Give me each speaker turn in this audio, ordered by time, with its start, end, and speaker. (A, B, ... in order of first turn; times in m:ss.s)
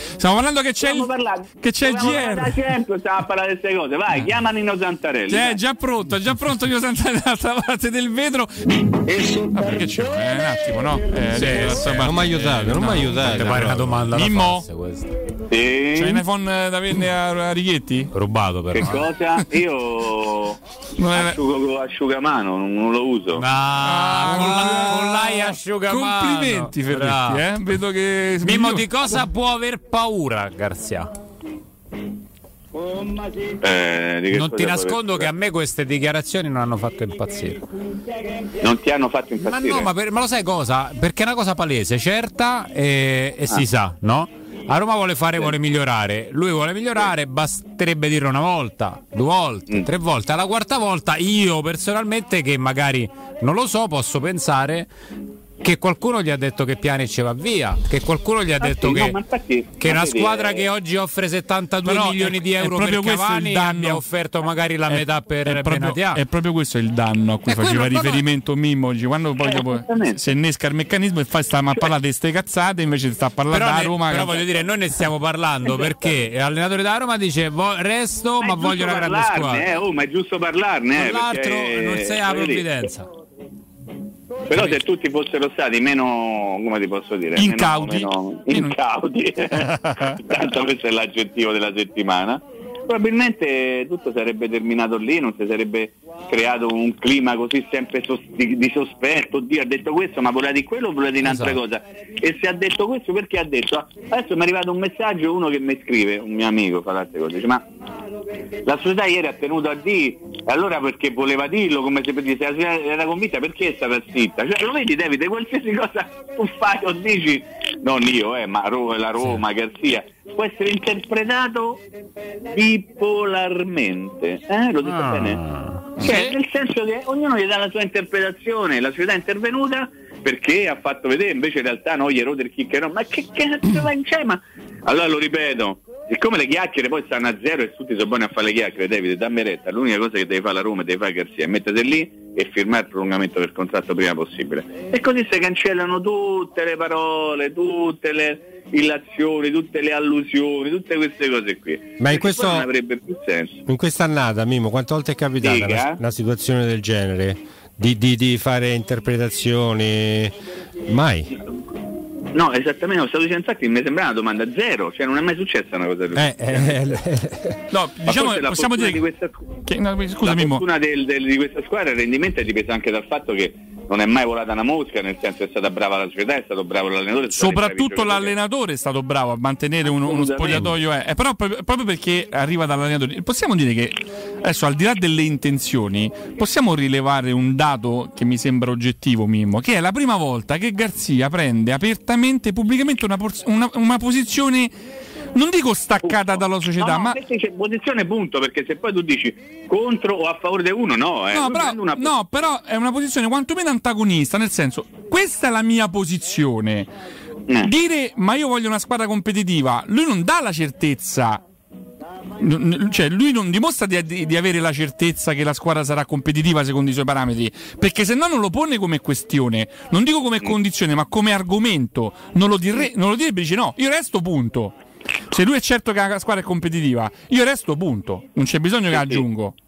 0:00.2-0:02.6 A
0:00.8-0:05.6 B
0:05.3-0:14.6 A
0:11.4-0:12.0 C
0:11.7-0:14.0 D
0:13.2-0:15.1 C
0:15.5-0:16.2 B
0:16.0-0:18.1 A
0:18.1-0:19.0 C
0:18.7-0:20.6 B
0:21.0-0:21.4 A
0:21.1-0:23.4 B
0:23.4-0:27.4 C
0:23.8-0:28.9 A
0:28.4-0:31.1 C
0:33.6-0:35.3 B
0:34.3-0:37.6 C
0:38.6-0:39.9 B
0:39.4-0:54.9 C
0:55.6-0:59.2 C
0:58.6-1:00.7 B
0:59.8-1:06.2 C
1:01.8-1:04.0 A
1:04.9-1:14.4 A
1:07.5-1:08.2 C
1:09.5-1:10.2 B
1:13.5-1:19.7 C
1:15.7-1:16.2 B
1:18.4-1:22.7 B
1:21.0-1:23.1 C
1:24.5-1:47.6 B
1:27.3-1:28.7 A
1:29.6-1:30.1 A
1:41.2-1:41.6 C
1:48.6-2:01.8 B
2:02.4-2:05.4 B
2:04.8-2:05.8 C
2:06.0-2:33.6 B
2:06.0-2:06.3 A
2:32.0-2:32.7 D
2:33.7-2:41.4 D
2:35.4-2:36.0 B
2:42.3-2:46.7 B
2:46.1-2:47.6 D
2:47.7-2:49.0 A
2:48.0-2:49.3 B
2:49.6-2:50.6 A
2:50.2-2:58.3 B
2:57.3-3:14.7 A
2:59.8-3:00.7 B
3:15.3-3:17.2 A
3:16.0-3:22.1 B
3:21.3-3:26.9 A
3:27.6-3:31.4 A
3:32.4-3:44.8 A
3:45.3-3:49.5 A
3:48.9-3:49.2 B